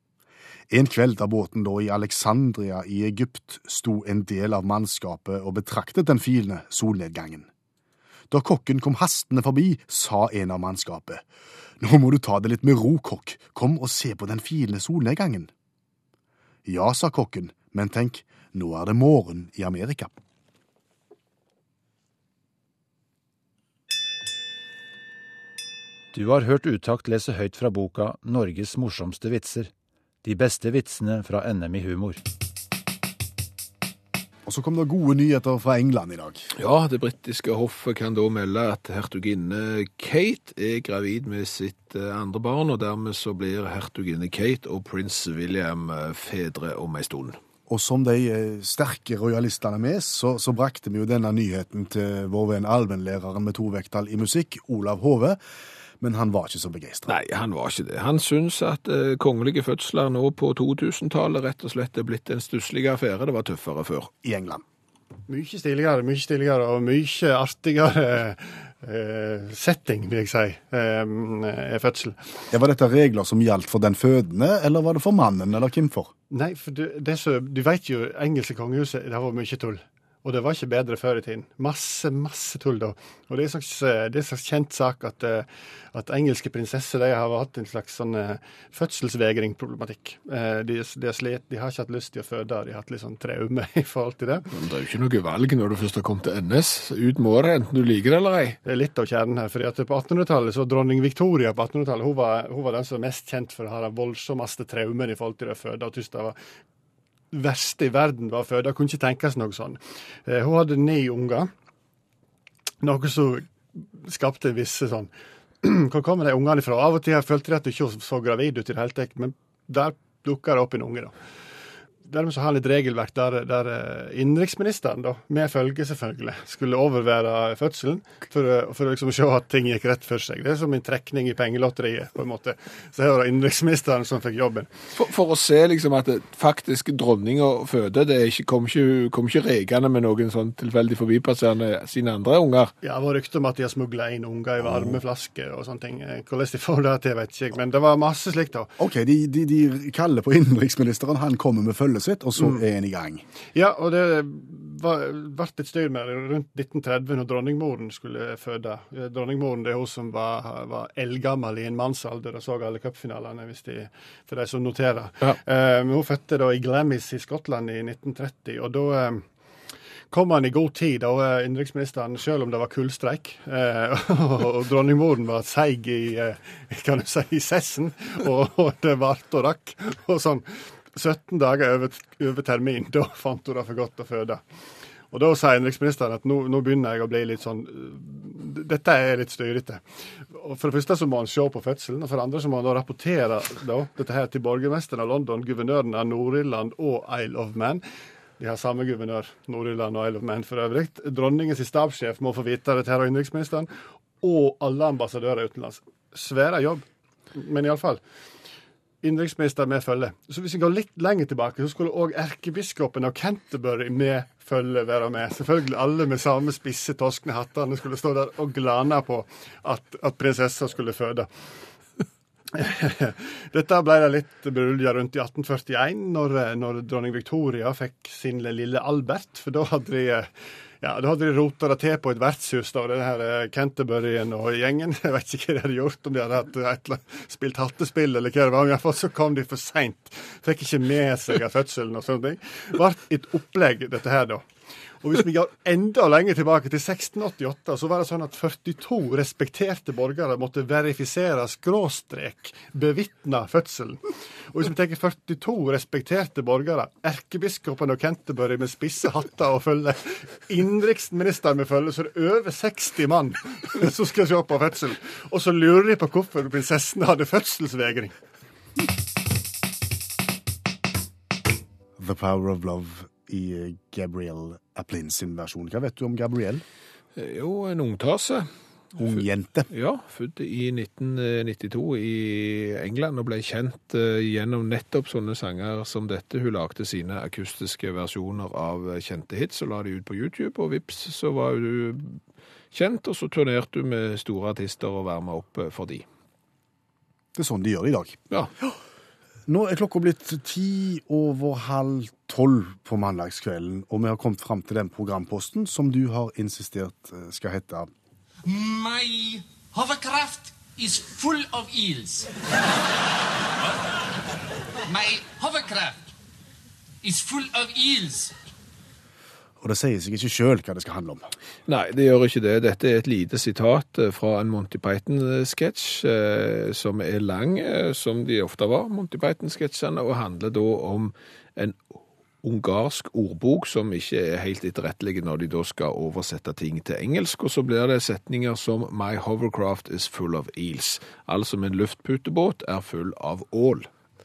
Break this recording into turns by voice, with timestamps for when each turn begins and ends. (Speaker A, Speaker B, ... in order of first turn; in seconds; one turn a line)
Speaker A: 0.7-7.5
Speaker A: 8.3-11.2
Speaker A: 11.8-15.5
Speaker A: 16.6-20.1
Speaker B: 26.1-29.7
Speaker B: 30.2-32.2
Speaker A: 34.4-36.4
Speaker C: 36.5-47.4
Speaker A: 47.7-55.4
Speaker A: 56.0-57.1
Speaker C: 57.1-64.1
Speaker A: 64.2-64.6
Speaker D: 65.3-72.3
Speaker A: 72.5-76.1
Speaker D: 76.3-94.5
Speaker C: 94.5-98.6
Speaker D: 98.7-106.3
Speaker D: 107.3-111.5
Speaker D: 112.8-115.1
Speaker D: 115.6-121.1
Speaker D: 122.0-134.7
Speaker C: 134.9-142.7
Speaker D: 142.8-148.7
Speaker A: 144.6-145.0
Speaker A: 148.8-153.2
Speaker D: 153.5-169.2
Speaker D: 170.1-184.4
Speaker D: 185.1-197.8
Speaker D: 198.4-208.0
Speaker D: 209.0-221.3
Speaker D: 222.5-230.3
Speaker D: 230.8-244.4
Speaker D: 245.0-268.1
Speaker A: 272.0-276.6
Speaker C: 277.1-292.2
Speaker A: 278.9-279.7
Speaker C: 292.7-296.0
Speaker A: 297.3-298.7
Speaker A: 299.5-307.9
Speaker E: 308.4-312.3
Speaker E: 314.8-316.1
Speaker E: 317.0-318.4
Speaker A: 319.6-321.3
Speaker C: 321.7-331.9
Speaker C: 332.4-343.9